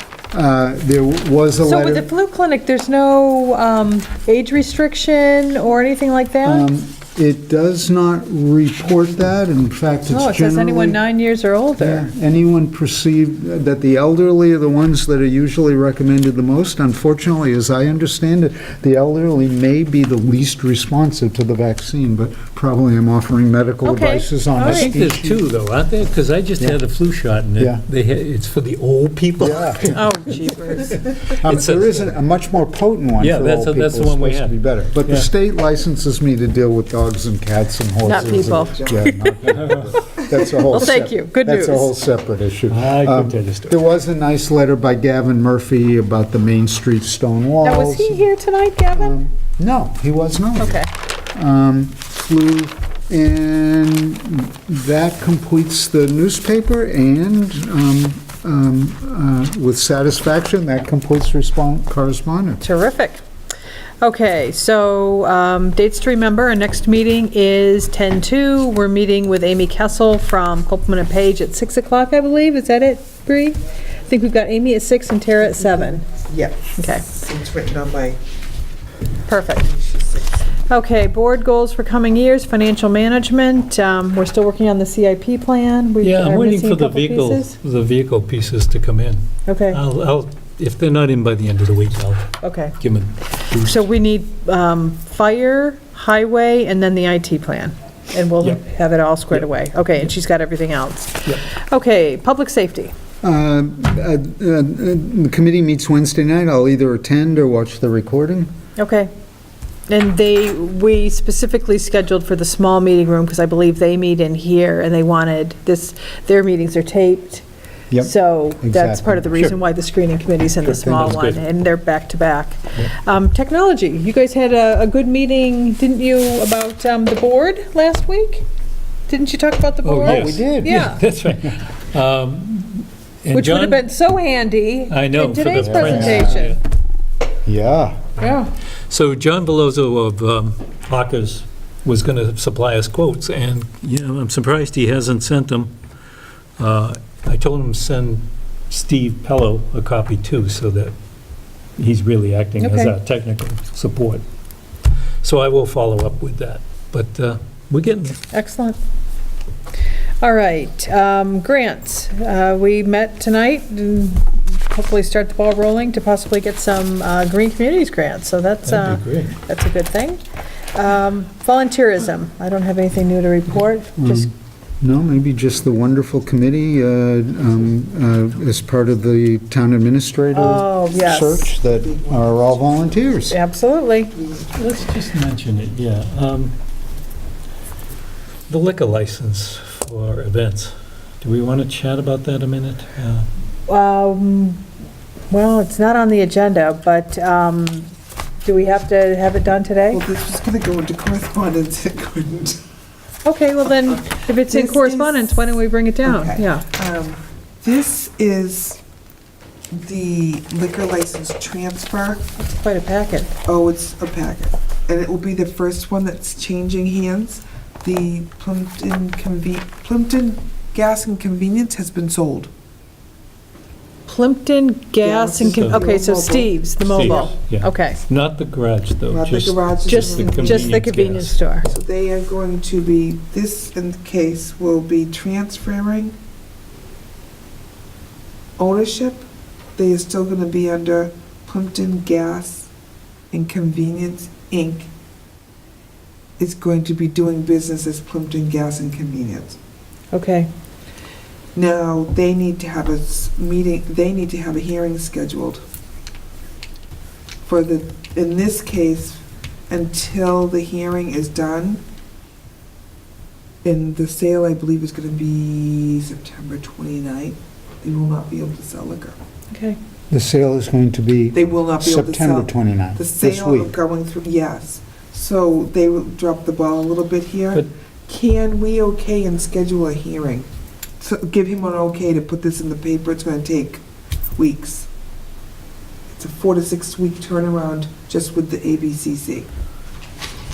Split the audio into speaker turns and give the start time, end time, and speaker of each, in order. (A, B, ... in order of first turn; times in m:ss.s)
0:00.3-0:02.1 A
0:01.6-0:06.6 B
0:06.4-0:11.1 A
0:10.1-0:12.1 B
0:11.8-0:25.4 A
0:23.8-0:24.9 B
0:24.6-0:30.5 C
0:27.6-0:27.8 A
0:29.4-0:30.1 A
0:29.9-0:31.0 B
0:31.1-0:48.3 A
0:31.3-0:32.2 C
0:33.2-0:35.3 C
0:38.0-0:39.6 B
0:39.5-0:39.8 C
0:40.4-0:41.9 B
0:42.7-0:43.8 C
0:47.6-0:49.2 B
0:48.9-0:50.8 A
0:50.6-0:50.9 B
0:51.3-1:02.6 A
1:02.6-1:03.2 B
1:04.0-1:16.0 B
1:15.4-1:18.2 D
1:16.8-1:17.0 B
1:19.3-1:19.6 B
1:19.6-1:20.4 D
1:20.7-1:27.5 B
1:26.0-1:33.8 C
1:29.5-1:29.8 B
1:32.4-1:32.8 B
1:33.6-1:42.9 B
1:43.2-1:48.5 A
1:48.8-1:49.1 B
1:49.9-1:57.4 B
1:57.9-1:59.5 A
1:58.0-2:08.4 B
2:00.6-2:01.4 C
2:09.1-2:11.0 B
2:09.8-2:13.8 C
2:10.0-2:10.9 A
2:13.3-2:16.6 B
2:14.9-2:16.6 C
2:15.5-2:16.4 A
2:17.4-2:18.2 A
2:18.2-2:18.5 B
2:18.9-2:25.7 C
2:26.6-2:30.9 C
2:31.8-2:34.2 C
2:32.6-2:32.9 B
2:35.2-2:38.2 C
2:38.3-2:38.8 B
2:40.2-2:50.2 B
2:48.6-2:49.3 C
2:50.7-2:54.3 B
2:54.0-3:03.4 A
3:00.3-3:01.5 B
3:01.5-3:03.1 D
3:03.3-3:04.1 B
3:04.2-3:04.5 D
3:04.5-3:06.5 C
3:08.5-3:13.2 C
3:13.7-3:14.6 B
3:15.3-3:17.9 B
3:18.4-3:20.0 B
3:19.9-3:22.6 D
3:23.2-3:26.6 B
3:23.9-3:25.4 D
3:26.0-3:28.8 D
3:29.7-3:32.2 D
3:32.4-3:33.3 B
3:33.4-3:42.5 D
3:44.1-3:48.0 B
3:45.0-3:47.3 D
3:45.4-3:45.9 C
3:46.8-3:51.4 C
3:49.1-3:50.8 D
3:49.9-3:51.7 B
3:51.6-3:56.1 D
3:58.6-4:02.7 D
4:03.3-4:04.9 D
4:06.4-4:09.6 D
4:10.1-4:10.5 B
4:11.5-4:15.6 D
4:17.4-4:21.8 D
4:23.6-4:29.2 D
4:29.5-4:29.8 B
4:30.1-4:33.7 A
4:31.3-4:40.5 D
4:41.0-4:43.8 D
4:44.4-4:44.9 D
4:46.1-4:49.5 D